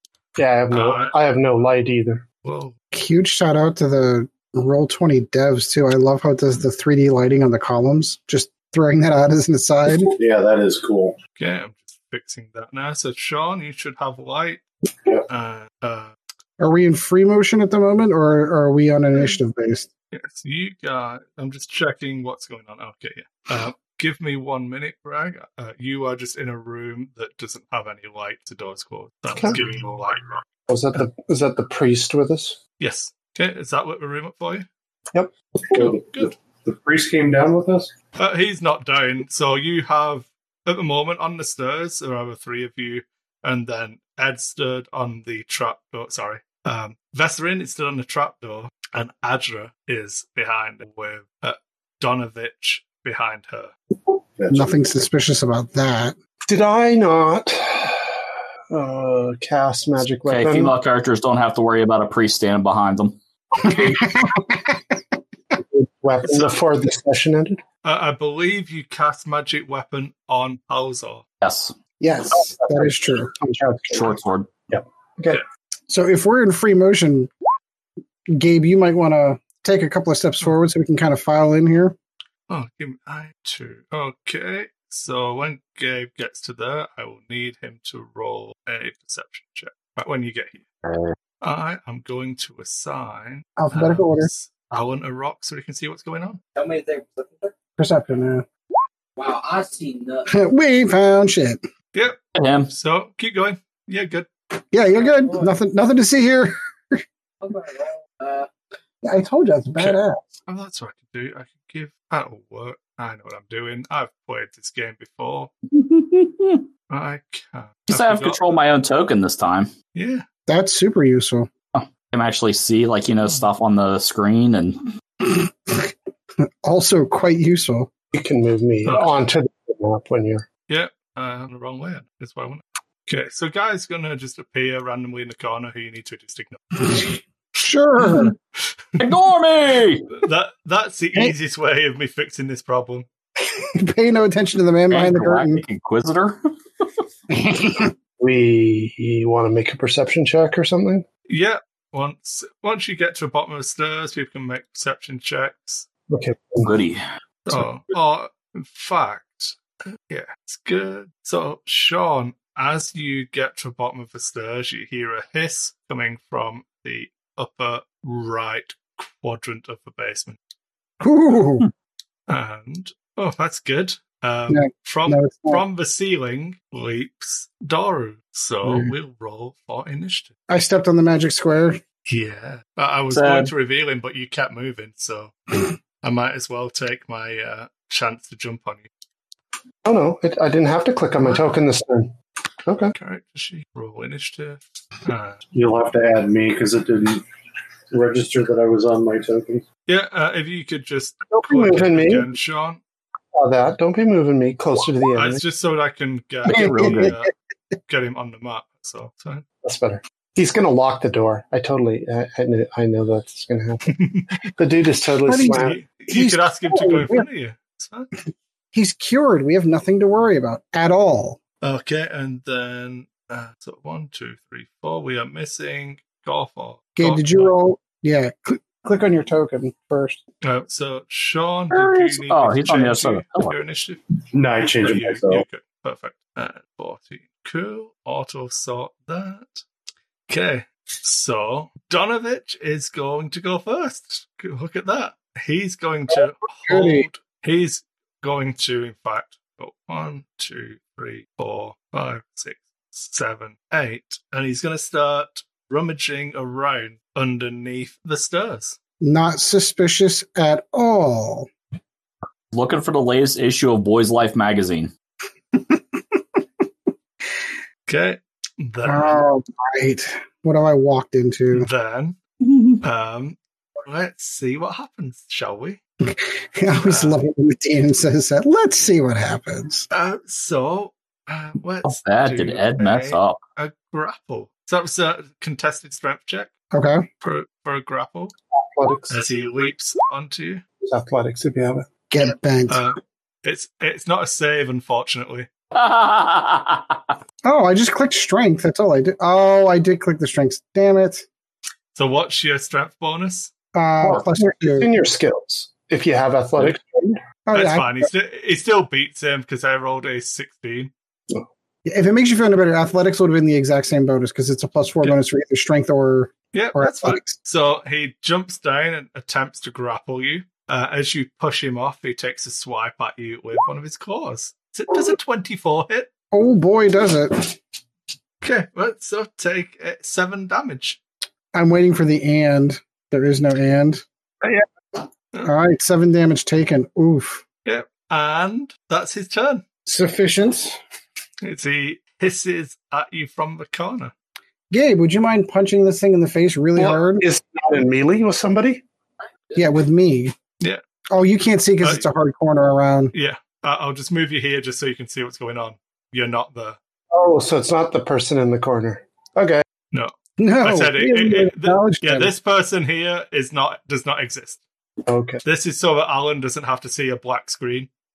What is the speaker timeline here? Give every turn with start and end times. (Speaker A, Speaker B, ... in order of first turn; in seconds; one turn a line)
Speaker A: 0.4-2.2
Speaker B: 0.7-1.1
Speaker B: 2.4-2.7
Speaker C: 2.9-10.1
Speaker D: 10.1-11.2
Speaker B: 11.4-14.6
Speaker B: 15.3-16.1
Speaker C: 16.6-19.9
Speaker B: 20.1-30.4
Speaker A: 29.3-29.6
Speaker A: 30.7-32.6
Speaker B: 32.8-34.6
Speaker D: 35.7-37.9
Speaker B: 35.8-36.3
Speaker B: 38.2-53.7
Speaker D: 54.4-55.0
Speaker C: 54.5-56.2
Speaker A: 56.5-60.7
Speaker E: 60.2-63.1
Speaker C: 63.6-65.0
Speaker A: 65.5-67.6
Speaker B: 67.8-71.2
Speaker E: 71.4-71.7
Speaker C: 72.0-73.3
Speaker A: 72.7-74.2
Speaker E: 73.9-74.5
Speaker A: 74.7-75.4
Speaker C: 75.9-77.3
Speaker C: 78.3-82.0
Speaker B: 82.5-90.6
Speaker E: 90.8-91.1
Speaker B: 91.4-96.4
Speaker C: 93.6-94.3
Speaker F: 96.5-97.5
Speaker C: 97.8-98.5
Speaker F: 99.2-100.3
Speaker C: 100.3-101.6
Speaker E: 102.3-102.7
Speaker B: 102.7-104.3
Speaker C: 104.7-107.0
Speaker F: 104.9-105.5
Speaker F: 107.4-108.5
Speaker C: 109.0-110.2
Speaker B: 109.8-115.5
Speaker E: 115.7-116.6
Speaker B: 116.9-118.6
Speaker E: 117.9-119.7
Speaker B: 119.9-120.2
Speaker C: 120.5-121.5
Speaker E: 121.7-124.8
Speaker C: 125.2-125.9
Speaker C: 126.6-127.9
Speaker A: 128.1-130.4
Speaker B: 128.8-129.1
Speaker B: 130.7-136.6
Speaker C: 136.9-138.3
Speaker E: 139.0-140.1
Speaker B: 140.2-143.1
Speaker C: 143.6-145.6
Speaker E: 144.9-146.4
Speaker C: 147.3-147.9
Speaker A: 148.2-151.0
Speaker B: 151.3-155.8
Speaker A: 156.1-156.7
Speaker E: 156.6-157.0
Speaker B: 157.4-159.6
Speaker B: 160.1-170.4
Speaker C: 171.0-171.7
Speaker B: 172.3-180.3
Speaker C: 174.5-175.6
Speaker C: 178.6-178.9
Speaker C: 180.5-181.8
Speaker B: 182.1-185.3
Speaker E: 183.1-183.5
Speaker B: 186.0-188.9
Speaker A: 189.8-192.1
Speaker A: 192.7-192.9
Speaker B: 192.9-195.4
Speaker D: 195.5-197.2
Speaker D: 197.9-199.6
Speaker B: 199.8-202.8
Speaker A: 201.3-202.3
Speaker A: 203.3-205.4
Speaker B: 205.2-207.3
Speaker E: 206.4-207.2
Speaker C: 206.5-207.1
Speaker B: 207.9-209.4
Speaker A: 209.6-213.9
Speaker B: 213.9-214.4
Speaker A: 214.6-215.8
Speaker C: 215.3-217.3
Speaker B: 215.5-218.1
Speaker C: 218.7-221.4
Speaker B: 221.6-227.5
Speaker C: 226.9-230.2
Speaker B: 230.4-234.0
Speaker E: 231.7-233.5
Speaker D: 234.3-235.4
Speaker B: 234.8-239.6
Speaker B: 240.3-258.8
Speaker C: 246.7-247.1
Speaker C: 259.0-261.5
Speaker E: 262.5-264.9
Speaker B: 267.9-269.2
Speaker C: 268.8-271.7
Speaker B: 271.5-272.2
Speaker E: 272.4-272.8
Speaker B: 272.8-275.8
Speaker C: 276.0-279.9
Speaker B: 276.8-277.2
Speaker B: 279.9-286.5
Speaker E: 281.8-283.4
Speaker C: 286.7-287.1
Speaker B: 287.2-288.3
Speaker A: 288.6-289.2
Speaker B: 289.1-290.6
Speaker A: 290.8-291.9
Speaker C: 292.1-292.8
Speaker B: 292.7-295.5
Speaker E: 295.7-297.1
Speaker C: 297.4-301.2
Speaker B: 301.9-303.5
Speaker C: 303.7-304.9
Speaker A: 304.0-307.2
Speaker C: 307.5-308.1
Speaker B: 307.5-310.9
Speaker C: 311.8-317.3
Speaker B: 316.5-326.1
Speaker C: 326.3-327.6
Speaker B: 328.4-331.0
Speaker C: 331.5-334.0
Speaker C: 335.4-337.4
Speaker B: 337.6-339.6
Speaker C: 339.9-340.8
Speaker B: 341.4-344.1
Speaker C: 344.7-347.2
Speaker A: 346.8-348.8
Speaker C: 349.6-350.4
Speaker C: 351.1-353.1
Speaker B: 353.1-356.8
Speaker A: 357.1-359.6
Speaker B: 359.9-364.6
Speaker C: 360.4-362.3
Speaker A: 365.1-365.4
Speaker B: 365.4-367.9